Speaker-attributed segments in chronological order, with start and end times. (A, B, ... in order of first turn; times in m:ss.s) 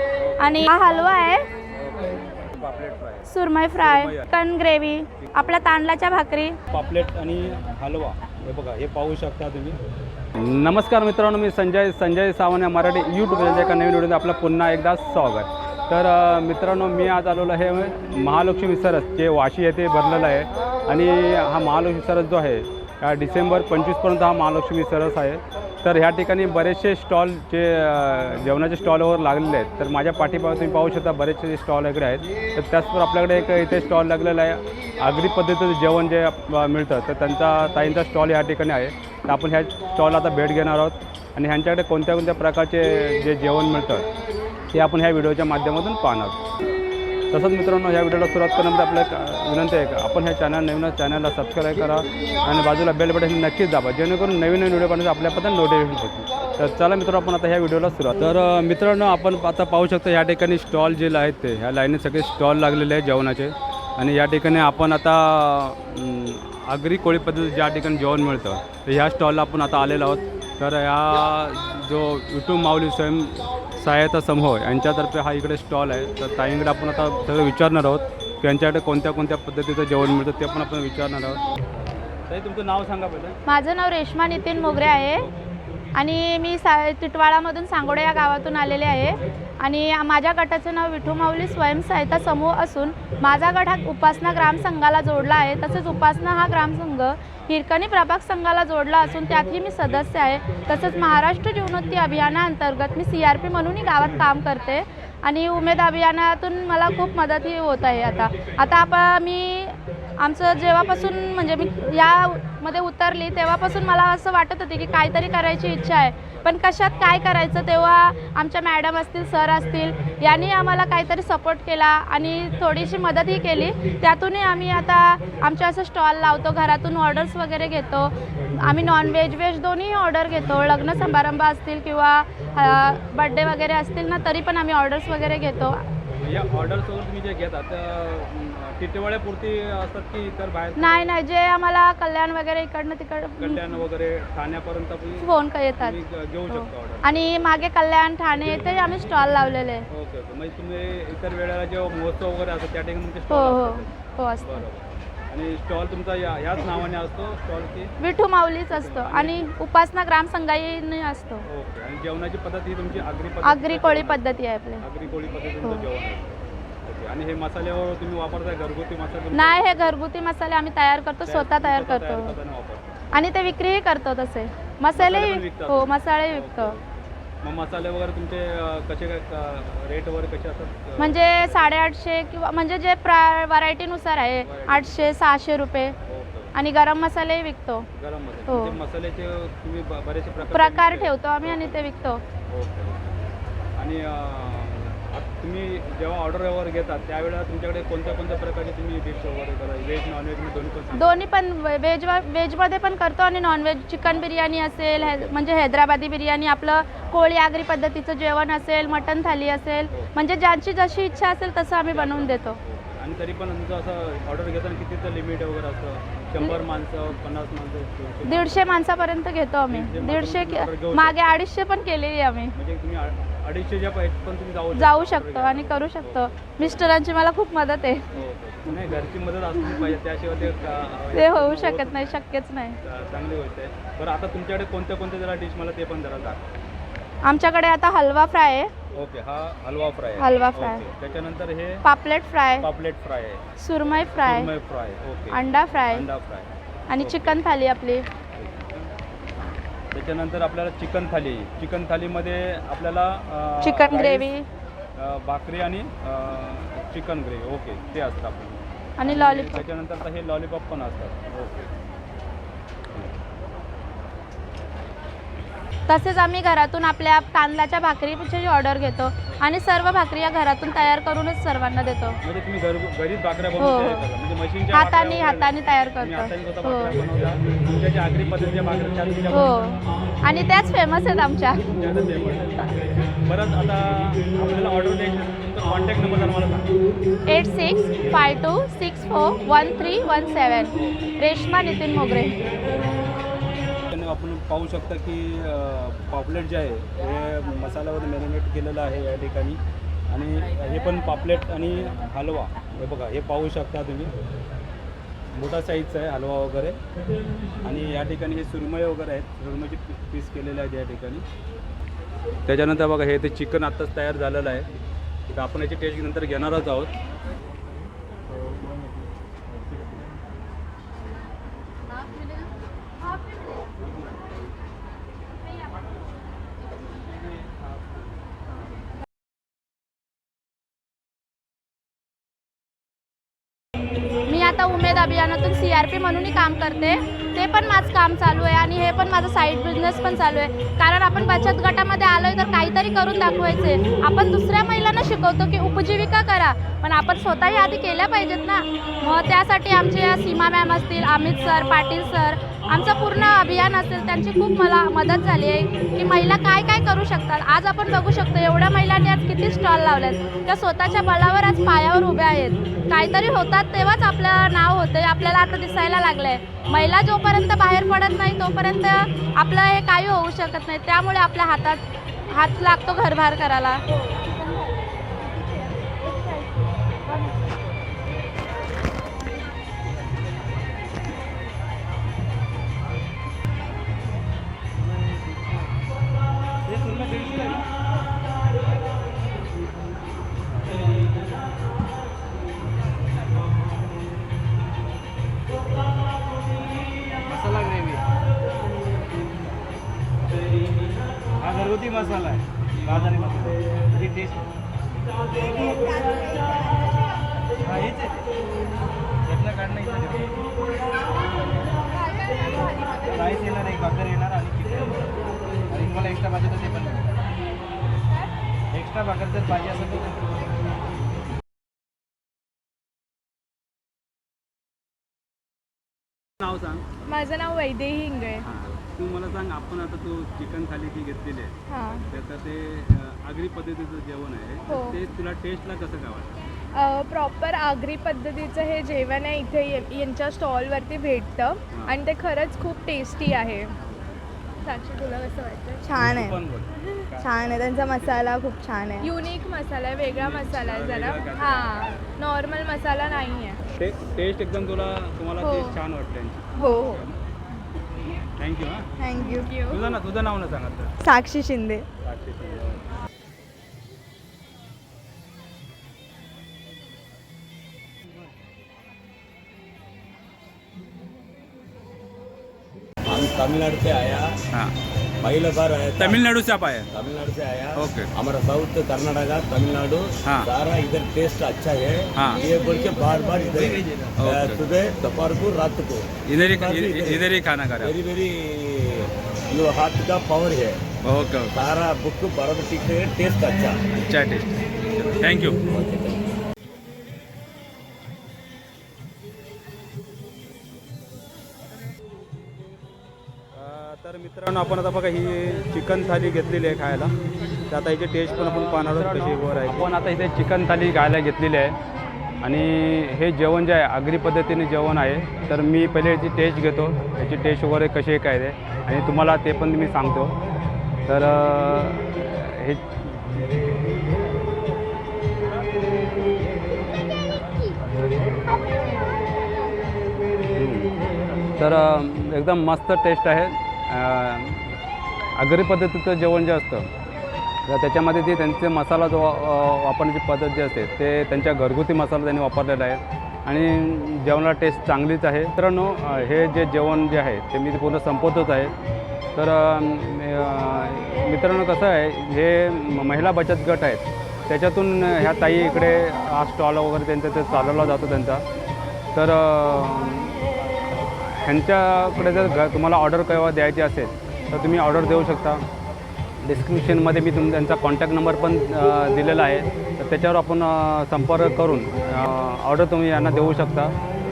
0:00.2-0:00.7 A
0:00.4-0:01.4 B
0:01.7-0:04.3 A
0:03.2-0:06.6 B
0:06.7-0:09.8 A
0:10.4-0:44.0 A
0:44.7-0:46.4 A
0:47.3-1:21.4 A
1:22.3-1:23.4 A
1:23.5-1:25.2 B
1:25.9-2:15.8 B
2:16.2-2:21.1 A
2:20.8-2:23.7 B
2:23.4-2:27.4 A
2:25.2-2:26.0 B
2:26.5-2:29.8 B
2:29.9-2:37.9 A
2:33.3-2:34.6 B
2:38.0-2:41.4 B
2:38.7-2:39.5 A
2:41.5-2:49.9 A
2:43.4-2:44.8 B
2:49.3-2:52.3 B
2:51.2-2:52.9 A
2:53.1-2:56.8 B
2:54.9-2:56.8 A
2:57.4-3:01.7 A
3:01.0-3:06.0 B
3:04.4-3:05.1 A
3:06.0-3:06.5 A
3:06.5-3:07.9 B
3:08.0-3:11.8 A
3:08.5-3:08.8 B
3:10.4-3:12.2 B
3:12.5-3:13.1 A
3:13.8-3:21.2 A
3:20.9-3:32.6 B
3:31.9-3:38.8 A
3:38.2-3:42.6 B
3:39.7-3:41.3 A
3:42.6-3:46.9 A
3:44.7-3:48.0 B
3:48.1-3:52.1 A
3:51.1-3:52.8 B
3:52.8-3:56.5 A
3:57.2-3:58.7 B
3:59.0-4:01.8 A
4:00.2-4:00.8 B
4:01.8-4:02.7 B
4:02.6-4:03.4 A
4:03.6-4:04.5 B
4:04.2-4:05.4 A
4:05.3-4:06.1 B
4:05.9-4:07.4 A
4:06.9-4:08.1 B
4:08.3-4:08.9 A
4:09.4-4:14.3 A
4:13.6-4:14.5 B
4:15.0-4:21.7 A
4:19.0-4:19.6 B
4:25.9-4:32.2 B
4:32.2-4:39.5 A
4:33.6-4:34.0 B
4:34.7-4:37.0 B
4:39.3-4:41.6 B
4:41.7-4:42.7 A
4:43.2-4:46.7 A
4:47.3-4:52.4 B
4:53.9-5:04.1 A
5:05.3-5:06.8 A
5:07.6-5:11.2 A
5:12.4-5:14.7 A
5:15.3-5:16.9 A
5:34.3-6:13.8 B
6:26.6-6:27.7 C
6:37.2-6:38.0 C
6:41.4-6:44.5 C
6:45.6-6:46.4 C
6:45.6-6:46.9 D
6:47.6-6:48.2 C
6:49.2-6:50.4 C
6:52.2-6:53.1 E
6:53.1-6:55.1 C
6:55.7-6:57.2 C
6:58.7-7:00.4 C
7:06.4-7:07.0 A
7:07.0-7:08.4 E
7:08.4-7:16.3 A
7:11.7-7:12.0 E
7:14.7-7:15.0 E
7:16.7-7:23.8 E
7:24.6-7:25.8 E
7:25.8-7:26.4 D
7:26.0-7:28.3 A
7:27.2-7:29.1 D
7:29.0-7:33.6 E
7:30.1-7:32.0 A
7:33.7-7:37.2 A
7:35.4-7:35.7 E
7:36.6-7:37.0 D
7:36.6-7:36.9 E
7:38.4-7:38.9 A
7:39.0-7:39.6 D
7:39.1-7:40.0 E
7:39.6-7:40.9 A
7:41.0-7:41.8 D
7:42.0-7:42.8 A
7:53.1-7:54.4 F
7:55.2-7:56.2 F
7:56.0-7:56.9 A
7:56.9-8:07.3 F
7:57.8-7:58.1 A
8:00.2-8:00.5 A
8:02.2-8:02.4 A
8:03.4-8:04.1 C
8:04.2-8:04.6 A
8:06.2-8:08.0 A
8:07.8-8:10.8 F
8:11.0-8:11.6 A
8:11.5-8:13.8 F
8:13.9-8:15.6 A
8:15.7-8:16.2 F
8:23.5-8:27.1 A
8:27.7-8:31.8 A
8:32.4-8:40.3 A
8:41.1-8:43.5 A
8:50.6-8:50.9 A
8:51.6-8:54.8 A
8:55.4-8:56.9 A
8:57.7-9:08.7 A
9:09.4-9:18.4 A
9:19.1-9:20.4 A
9:21.1-9:25.6 A
9:26.4-9:33.9 A